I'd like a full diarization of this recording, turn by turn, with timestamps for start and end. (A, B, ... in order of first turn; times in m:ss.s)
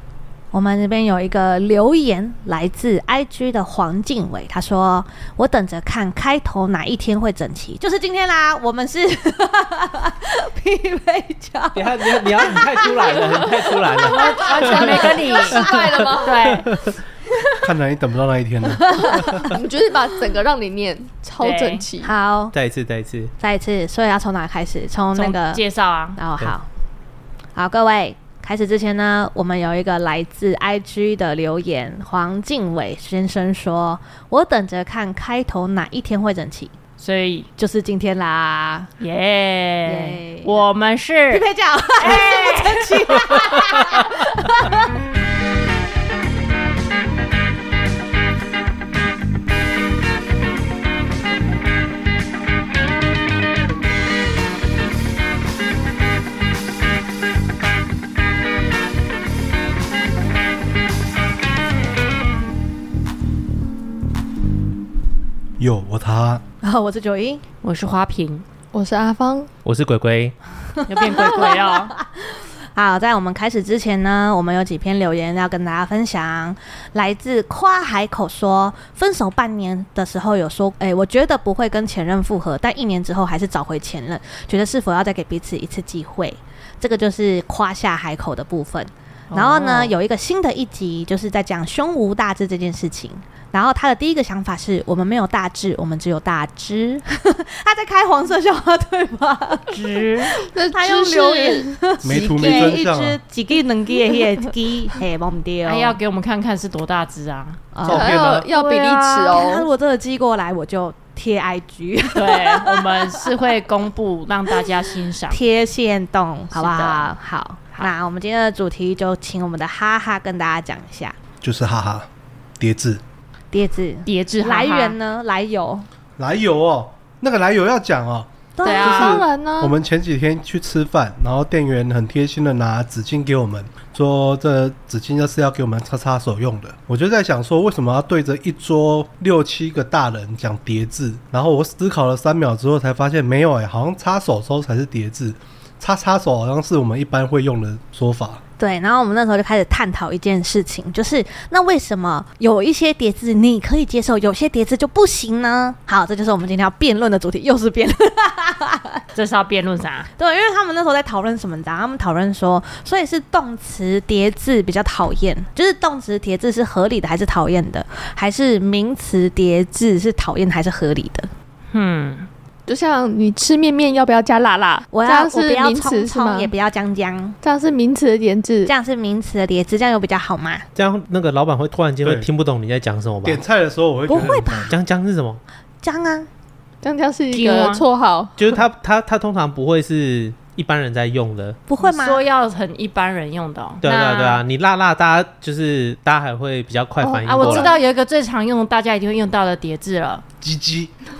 0:00.5-0:15.8 A
0:11.8-0:15.0 B
0:14.0-0:16.5 C
0:14.1-0:16.7 D
0:15.5-0:15.9 B
0:16.6-0:16.9 B
0:17.6-0:18.9 E
0:18.7-0:19.6 A
0:19.1-0:22.1 C
0:21.4-0:21.8 D
0:22.0-0:22.5 A
0:22.5-0:23.3 B
0:23.4-0:25.6 A
0:25.2-0:26.2 D
0:26.2-0:26.7 A
0:27.6-0:36.7 A
0:37.0-0:37.5 D
0:37.6-0:38.9 A
0:39.0-0:41.4 D
0:39.8-0:40.6 A
0:41.3-0:44.9 A
0:42.0-0:43.5 D
1:05.6-1:06.4 E
1:06.6-1:07.4 A
1:07.6-1:08.4 D
1:08.7-1:09.5 C
1:09.6-1:10.4 B
1:10.8-1:39.8 A
1:10.9-1:11.9 D
1:29.3-1:30.0 D
1:39.7-1:40.3 D
1:40.4-1:42.7 C
1:40.7-1:46.0 A
1:42.0-1:43.2 E
1:45.7-1:47.6 D
1:47.7-1:53.2 A
1:47.8-1:48.5 E
1:47.9-1:49.7 C
1:52.2-1:55.4 D
1:55.3-2:01.2 A
1:56.5-1:57.1 D
2:01.4-2:02.1 E
2:02.6-2:03.0 E
2:03.5-2:05.9 A
2:04.1-2:05.0 D
2:06.2-2:28.4 E
2:08.6-2:09.2 A
2:08.6-2:09.1 D
2:08.8-2:09.8 C
2:28.6-2:39.0 A
2:39.2-2:40.1 D
2:40.2-2:51.3 A
2:51.7-2:52.3 D
2:52.7-2:56.5 C
2:54.9-2:57.4 A
2:57.4-2:58.7 C
2:58.6-3:00.7 A
3:00.8-3:03.4 B
3:02.0-3:02.3 E
3:03.2-3:04.7 E
3:04.1-3:04.8 A
3:04.7-3:05.4 B
3:05.8-3:06.3 A
3:06.8-3:08.4 C
3:07.3-3:07.9 D
3:08.4-3:11.6 B
3:11.7-3:12.2 A
3:11.8-3:14.4 D
3:13.8-3:17.7 B
3:17.0-3:17.8 C
3:17.2-3:20.2 D
3:20.4-3:20.9 E